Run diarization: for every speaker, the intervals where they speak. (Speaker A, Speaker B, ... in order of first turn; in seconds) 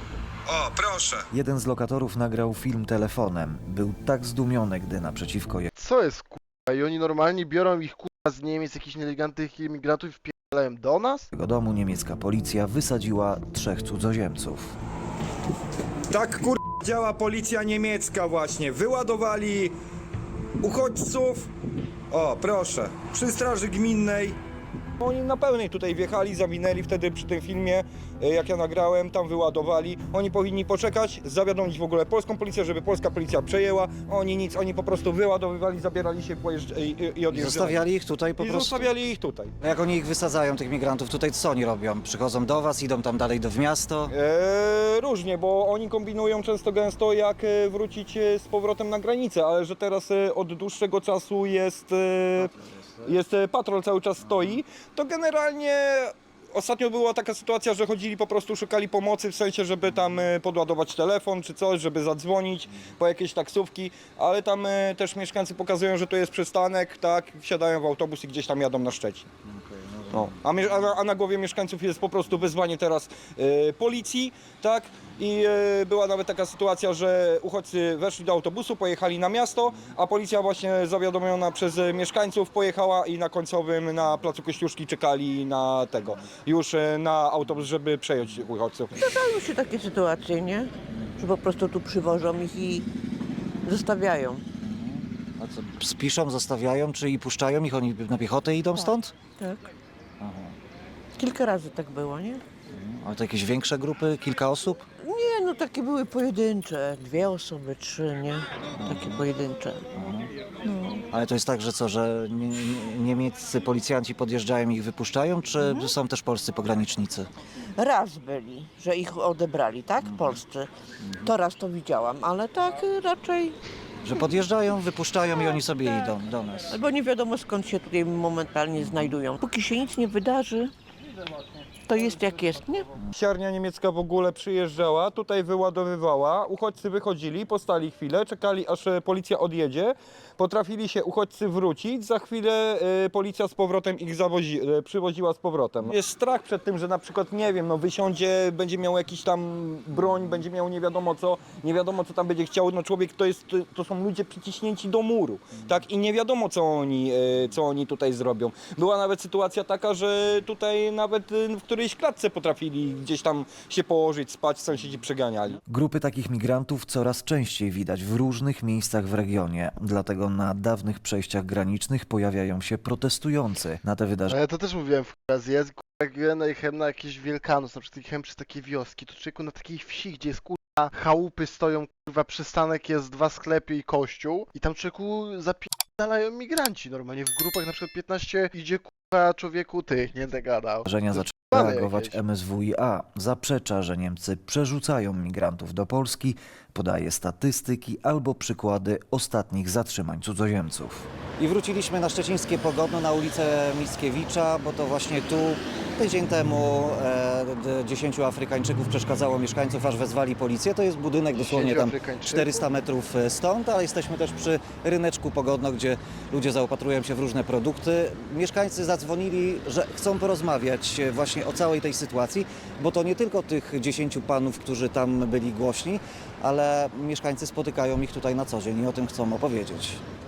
Speaker A: 0.5-1.3, 16.1-19.7, 20.6-21.5, 22.1-24.4, 25.0-37.8, 38.4-39.5, 44.1-69.3, 70.1-88.9, 133.1-165.6
Speaker B: 1.3-5.7, 11.3-14.7, 37.3-38.9, 39.6-44.1, 94.6-99.1, 100.2-100.5, 102.7-104.8, 108.8-109.2, 110.0-110.3, 111.1-117.3, 120.0-120.4, 124.0-126.8, 128.8-129.2, 165.7-174.3, 190.8-230.0
Speaker C: 5.7-11.3, 174.3-192.2, 211.3-212.7
Speaker D: 89.0-92.8, 93.6-94.4, 98.8-99.6, 101.2-102.4, 105.0-109.9, 110.6-111.0, 115.6-115.9, 117.7-120.7, 121.2-123.5, 126.7-130.7, 131.8-132.9